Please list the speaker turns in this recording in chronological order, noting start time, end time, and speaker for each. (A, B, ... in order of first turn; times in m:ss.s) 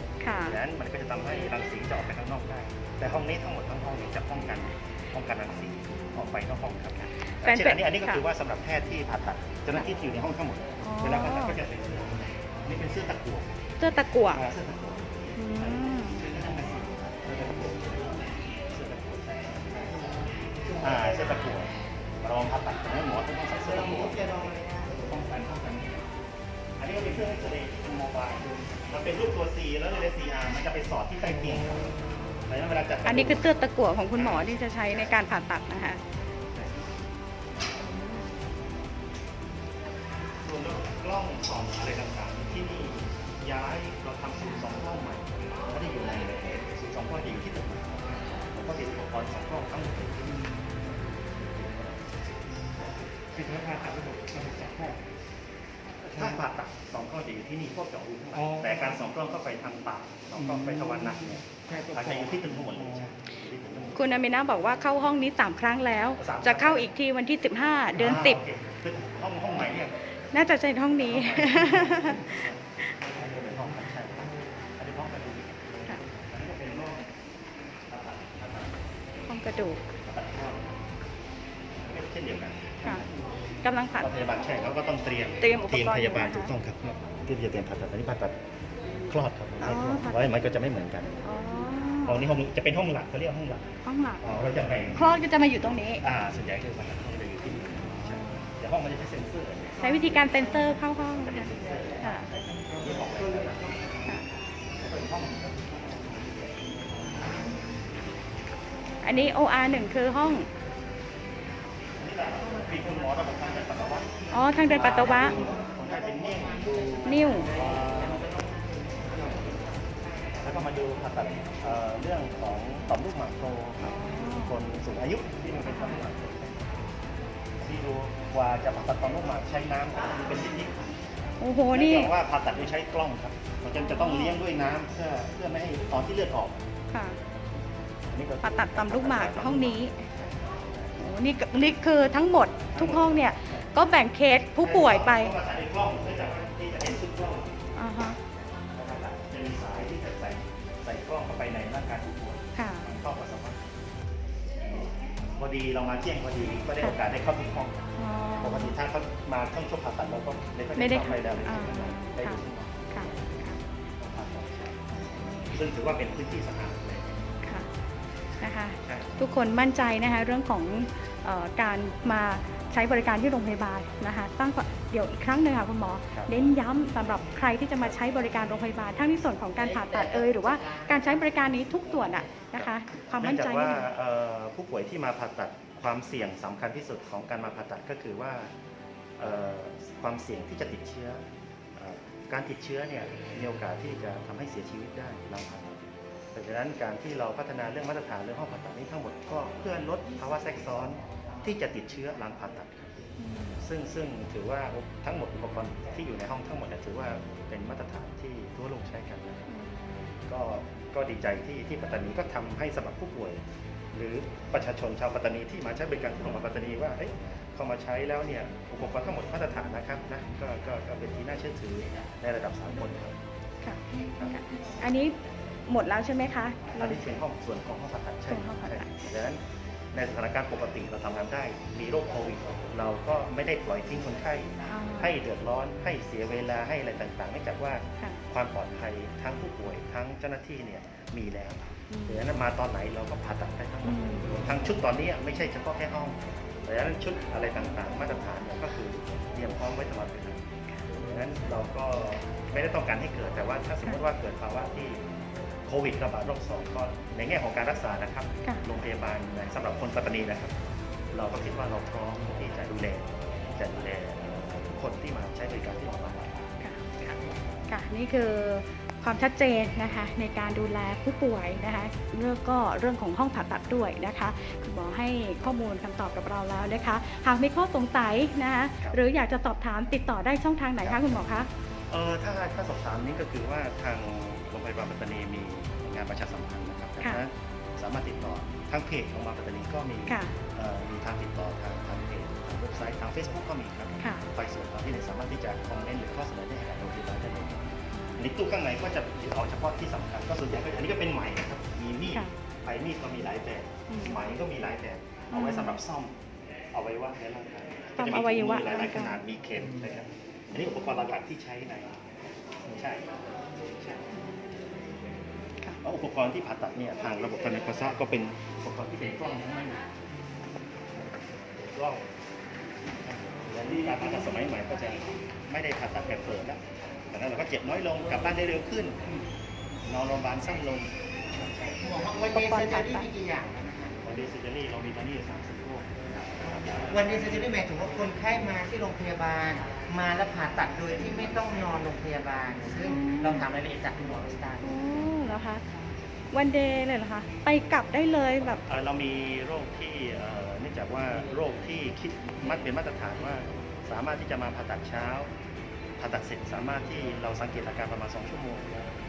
0:00.2-0:00.6 A
0:00.4-0:13.5 B
0:06.0-0:06.2 A
0:07.2-0:08.2 A
0:10.8-0:11.6 A
0:13.8-0:14.4 A
0:14.3-0:19.8 B
0:15.4-0:16.2 A
0:19.7-0:21.3 C
0:20.8-0:26.0 B
0:23.6-0:25.1 C
0:26.8-0:33.6 B
0:33.0-0:36.0 A
0:34.1-0:35.2 B
0:36.5-0:36.9 B
0:37.8-0:38.3 A
0:40.4-0:52.0 B
0:53.3-0:55.0 D
0:56.0-1:04.0 B
0:58.4-0:59.0 D
1:00.4-1:03.0 D
1:04.0-1:08.4 A
1:06.2-1:06.9 B
1:08.0-1:10.0 B
1:10.3-1:12.5 A
1:11.0-1:17.1 B
1:17.9-1:18.8 B
1:19.3-1:19.9 A
1:20.0-1:20.8 B
1:21.8-1:23.2 B
1:23.6-1:24.1 A
1:24.0-1:28.4 B
1:25.4-1:26.5 A
1:28.9-1:31.2 B
1:29.6-1:30.3 A
1:31.2-1:32.2 A
1:32.0-1:33.7 B
1:33.8-1:34.2 A
1:34.2-1:35.1 B
1:35.0-1:36.0 A
1:36.0-1:44.0 B
1:38.0-1:38.4 A
1:39.8-1:41.5 A
1:42.0-1:42.3 A
1:44.8-1:46.8 B
1:49.0-1:50.5 A
1:52.0-1:54.1 B
1:54.3-1:55.4 A
1:54.6-1:58.2 B
1:55.3-1:59.8 C
1:57.0-1:57.5 A
2:00.4-2:03.8 B
2:03.8-2:04.6 A
2:04.4-2:06.8 B
2:05.6-2:06.0 A
2:07.6-2:10.9 B
2:11.4-2:12.1 A
2:11.7-2:16.6 B
2:13.7-2:14.4 A
2:16.9-2:17.2 A
2:18.1-2:20.8 B
2:18.4-2:20.1 A
2:21.0-2:25.4 A
2:22.7-2:23.7 B
2:24.6-2:27.6 B
2:27.8-2:28.2 A
2:28.7-2:33.6 B
2:32.6-2:32.9 A
2:35.3-2:37.8 B
2:38.0-2:38.8 A
2:38.4-2:43.2 B
2:40.8-2:43.6 A
2:44.0-2:44.8 B
2:44.9-2:45.6 A
2:45.5-2:47.4 B
2:47.4-2:47.7 A
2:48.4-3:03.9 A
2:48.8-2:49.2 B
2:59.6-3:01.3 C
3:02.0-3:02.4 C
3:02.5-3:08.5 B
3:09.2-3:11.2 B
3:11.8-3:23.0 B
3:23.2-3:23.6 A
3:23.6-3:29.4 B
3:29.5-3:29.9 A
3:30.3-3:33.4 B
3:33.9-3:43.2 B
3:43.6-3:47.0 A
3:46.8-3:49.4 B
3:48.3-3:48.9 A
3:49.9-4:10.4 B
3:54.7-3:55.1 A
4:01.9-4:02.3 A
4:03.8-4:04.3 A
4:11.0-4:15.0 B
4:15.7-4:20.6 B
4:21.1-4:26.4 B
4:26.6-4:27.2 A
4:27.7-4:41.5 A
4:40.8-4:41.2 B
4:41.9-5:06.2 B
4:50.1-4:50.3 A
4:54.0-4:54.3 A
4:57.9-4:58.2 A
5:03.9-5:04.2 A
5:05.3-5:05.8 A
5:06.7-5:12.0 B
5:08.0-5:09.2 A
5:10.6-5:11.0 A
5:12.6-5:13.1 B
5:14.1-5:14.4 A
5:15.8-5:19.8 B
5:21.6-5:22.1 B
5:23.0-5:29.0 B
5:29.8-5:31.8 B
5:31.8-5:34.0 C
5:32.3-5:33.1 A
5:34.0-5:37.6 B
5:36.9-5:44.9 C
5:41.0-5:41.3 B
5:42.8-5:43.5 A
5:44.6-5:45.6 A
5:46.3-5:48.6 A
5:48.7-5:55.3 B
5:56.0-5:58.7 B